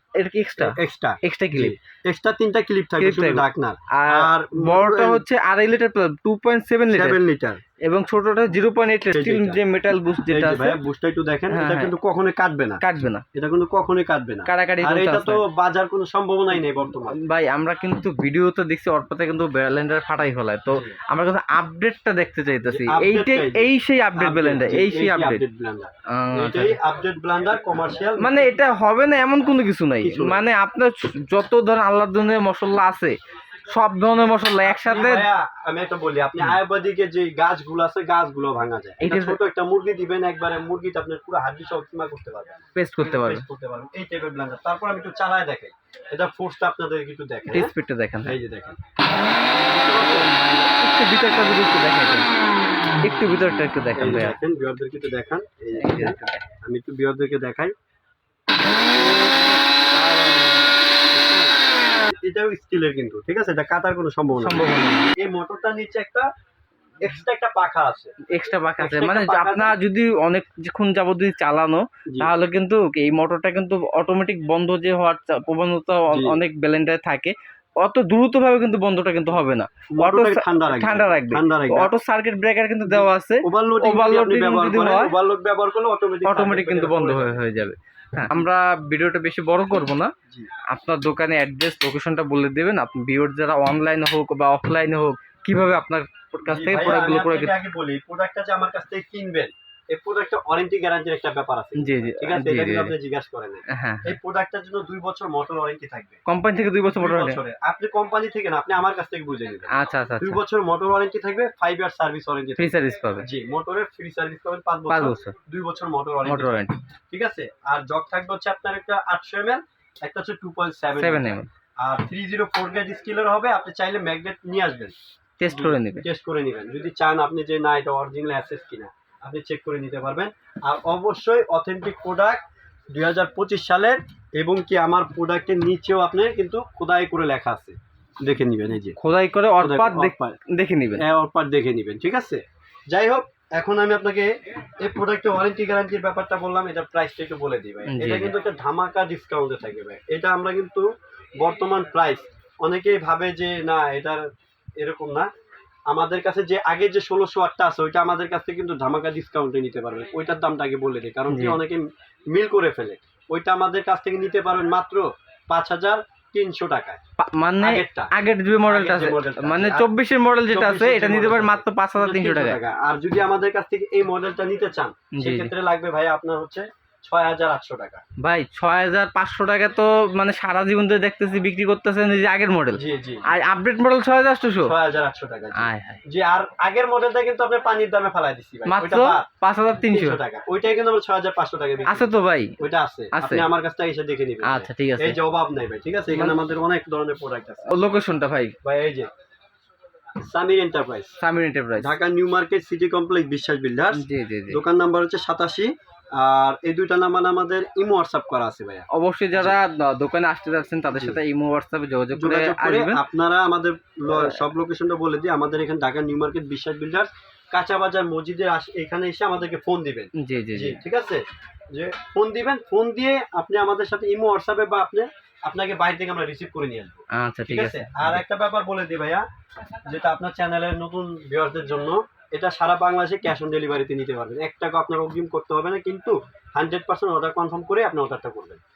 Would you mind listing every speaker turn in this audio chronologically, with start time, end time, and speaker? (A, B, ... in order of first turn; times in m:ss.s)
0:00.2-0:01.8 A
0:00.6-0:05.2 B
0:03.0-0:07.2 A
0:06.9-0:07.6 B
0:07.9-0:10.8 A
0:09.1-0:09.6 B
0:10.3-0:12.8 B
0:11.5-0:11.9 A
0:12.8-0:13.2 A
0:13.4-0:17.2 B
0:14.5-0:15.4 A
0:16.5-0:25.4 A
0:20.7-0:21.0 B
0:22.7-0:23.7 B
0:24.2-0:28.6 B
0:26.1-0:26.8 A
0:28.2-0:33.2 A
0:30.0-0:30.4 B
0:33.7-0:35.3 A
0:34.6-0:47.7 B
0:39.0-0:39.4 A
0:42.8-0:43.5 A
0:47.5-0:48.4 A
0:48.2-0:48.8 B
0:49.6-0:50.4 B
0:49.9-0:52.3 A
0:53.0-0:54.4 A
0:54.0-0:57.7 B
0:55.8-0:56.5 A
0:58.9-1:00.8 A
1:01.1-1:01.6 B
1:02.2-1:06.3 B
1:04.4-1:05.1 A
1:07.0-1:08.2 B
1:08.3-1:25.1 A
1:08.8-1:09.8 B
1:16.1-1:16.4 B
1:20.0-1:21.9 B
1:22.9-1:27.5 B
1:26.2-1:30.1 A
1:28.2-1:28.4 B
1:30.7-1:37.5 A
1:36.5-1:46.2 B
1:41.8-1:43.0 A
1:43.7-1:44.2 A
1:46.3-1:47.4 A
1:46.9-1:56.6 B
1:49.7-1:50.4 A
1:52.6-1:53.3 A
1:54.9-1:55.4 A
1:56.2-1:56.8 A
1:57.1-2:05.0 B
2:01.0-2:01.5 A
2:05.4-2:06.0 A
2:05.5-2:12.4 B
2:12.9-2:19.0 B
2:19.0-2:21.0 A
2:19.6-2:20.4 B
2:21.0-2:30.9 B
2:27.9-2:28.4 A
2:31.4-2:34.2 B
2:34.8-2:35.3 B
2:35.9-2:47.0 B
2:41.3-2:41.6 A
2:47.2-2:52.6 A
2:47.6-2:48.1 B
2:48.7-2:49.9 B
2:50.5-2:58.0 B
2:55.2-2:55.5 A
2:58.2-3:04.8 A
3:02.8-3:03.2 B
3:04.6-3:17.7 B
3:05.6-3:06.0 A
3:08.7-3:10.2 A
3:11.9-3:12.6 A
3:13.1-3:13.5 A
3:14.4-3:15.2 A
3:16.1-3:16.4 A
3:17.7-3:18.6 A
3:18.6-3:19.1 B
3:20.3-3:21.2 B
3:21.2-3:22.0 A
3:21.8-3:28.9 B
3:24.0-3:24.6 A
3:28.9-3:33.0 A
3:30.9-3:31.2 B
3:32.1-3:49.2 B
3:34.1-3:34.4 A
3:40.2-3:40.8 A
3:47.1-3:48.2 A
3:49.9-3:58.6 B